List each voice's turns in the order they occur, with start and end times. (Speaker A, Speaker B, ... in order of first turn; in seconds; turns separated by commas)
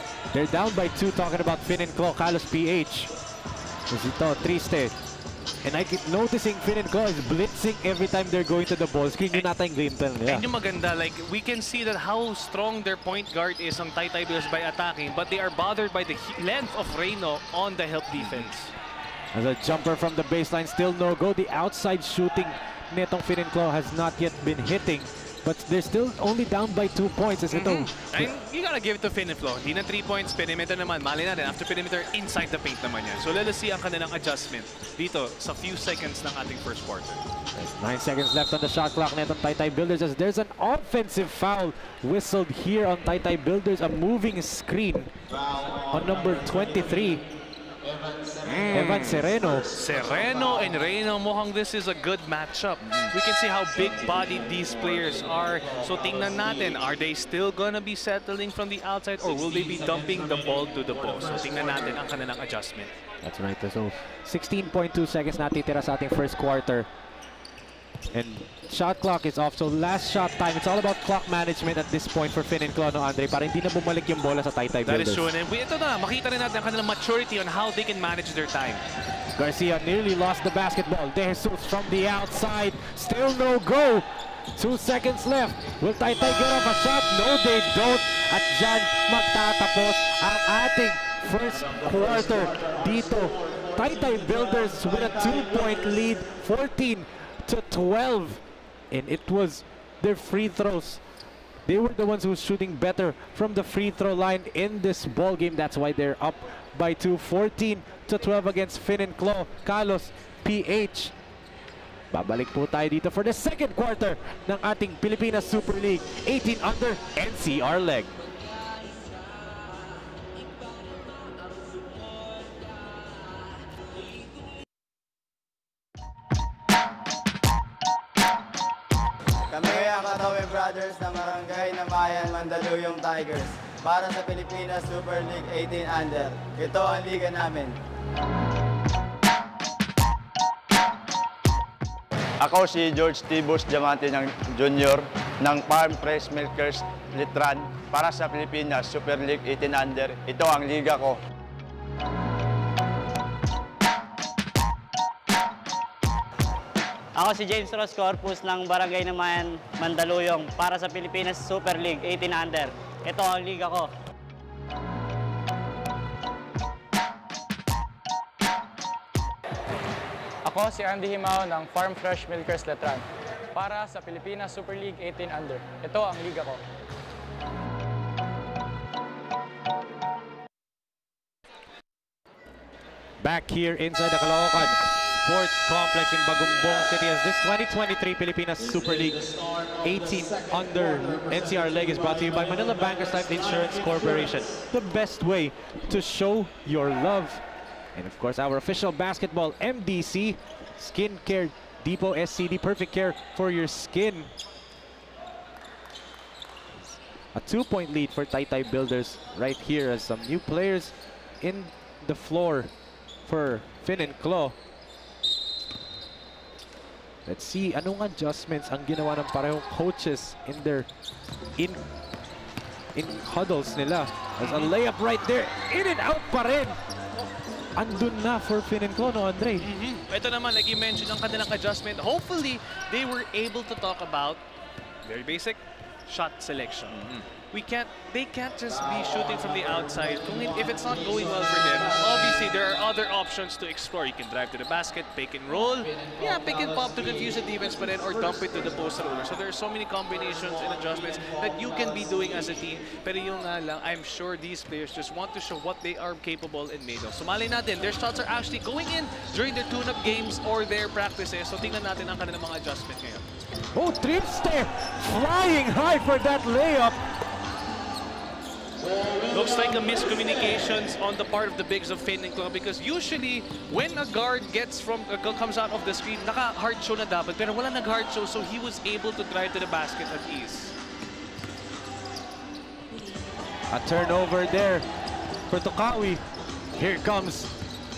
Speaker A: 0.3-3.1, Speaker A: 3.9-5.0, Speaker A: 5.6-10.4, Speaker B: 10.2-18.7, Speaker A: 18.2-18.5, Speaker A: 19.3-28.3, Speaker B: 27.5-37.2, Speaker A: 37.5-45.1, Speaker A: 45.9-47.2, Speaker B: 48.4-62.9, Speaker A: 48.7-49.7, Speaker A: 63.2-66.9, Speaker A: 68.1-75.3, Speaker B: 74.8-78.8, Speaker A: 79.3-101.0, Speaker A: 101.7-111.1, Speaker A: 112.1-118.1, Speaker C: 129.5-137.8, Speaker D: 142.4-151.2, Speaker E: 157.2-163.9, Speaker F: 170.4-176.6, Speaker A: 183.2-189.3, Speaker A: 189.8-204.3, Speaker A: 206.7-212.7, Speaker A: 213.2-214.6, Speaker A: 217.2-220.9, Speaker A: 221.6-221.8, Speaker A: 222.9-226.8, Speaker B: 224.4-224.7, Speaker A: 227.7-229.7, Speaker B: 229.6-234.4, Speaker B: 235.1-263.3, Speaker A: 263.7-267.0, Speaker B: 269.3-280.7, Speaker A: 283.7-284.9, Speaker A: 285.5-286.2, Speaker A: 286.7-287.5